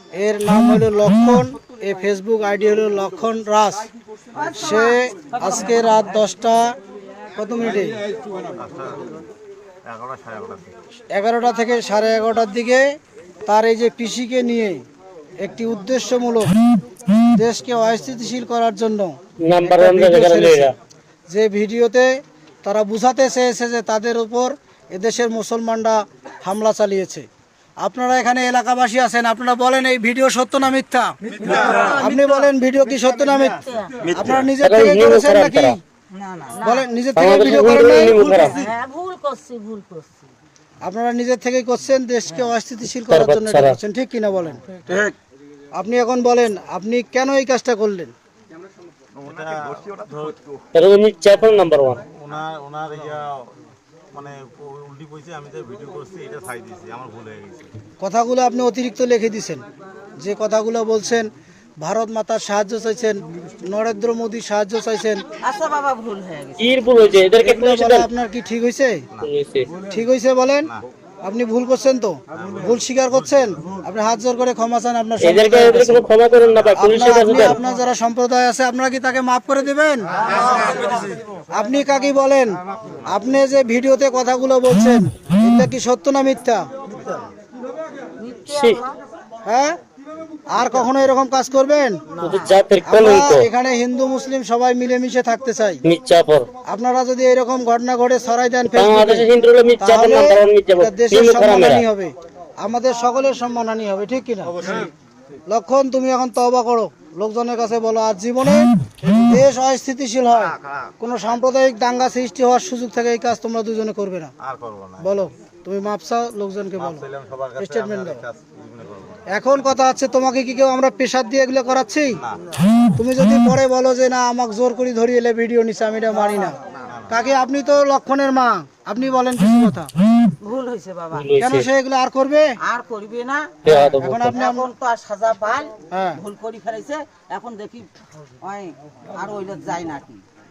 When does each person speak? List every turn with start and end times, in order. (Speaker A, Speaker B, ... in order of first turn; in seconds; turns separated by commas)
Speaker A: 0.1-3.9, Speaker B: 4.3-5.9, Speaker A: 4.5-6.7, Speaker A: 7.3-8.0, Speaker C: 8.6-9.2, Speaker C: 9.8-10.7, Speaker A: 11.1-12.8, Speaker A: 13.5-14.8, Speaker A: 15.4-16.6, Speaker A: 17.3-20.7, Speaker D: 19.4-20.7, Speaker A: 21.3-22.1, Speaker A: 22.6-27.3, Speaker A: 27.8-31.1, Speaker B: 31.4-32.1, Speaker A: 31.9-35.8, Speaker B: 33.6-33.9, Speaker D: 34.6-35.7, Speaker B: 36.1-36.8, Speaker A: 36.6-38.5, Speaker D: 37.1-38.6, Speaker B: 38.1-40.2, Speaker A: 40.8-44.6, Speaker D: 43.1-43.8, Speaker B: 44.9-45.1, Speaker A: 45.7-48.1, Speaker C: 49.2-50.4, Speaker D: 50.7-52.0, Speaker C: 52.1-53.5, Speaker C: 54.1-57.7, Speaker A: 58.0-59.6, Speaker A: 60.2-61.3, Speaker A: 61.8-65.2, Speaker B: 65.4-66.7, Speaker D: 66.6-68.1, Speaker A: 67.4-69.0, Speaker D: 69.2-69.7, Speaker A: 69.9-70.7, Speaker A: 71.2-76.0, Speaker C: 72.3-73.4, Speaker D: 75.2-77.6, Speaker A: 76.7-80.1, Speaker B: 80.6-80.9, Speaker A: 81.5-86.7, Speaker B: 88.2-88.9, Speaker D: 88.5-88.8, Speaker A: 89.4-89.8, Speaker A: 90.5-92.0, Speaker B: 92.2-92.5, Speaker D: 92.2-93.5, Speaker A: 92.8-95.8, Speaker D: 95.8-96.5, Speaker A: 96.7-104.6, Speaker D: 98.7-101.8, Speaker A: 105.5-114.3, Speaker C: 114.4-115.1, Speaker A: 115.0-117.0, Speaker C: 116.8-119.2, Speaker A: 117.6-118.2, Speaker A: 119.3-122.2, Speaker A: 123.0-126.5, Speaker A: 127.1-129.9, Speaker B: 130.4-131.3, Speaker D: 131.1-131.7, Speaker A: 131.4-132.5, Speaker B: 132.6-133.6, Speaker D: 133.6-134.4, Speaker A: 133.7-134.7, Speaker B: 134.3-137.9, Speaker A: 135.9-136.2, Speaker B: 138.4-140.2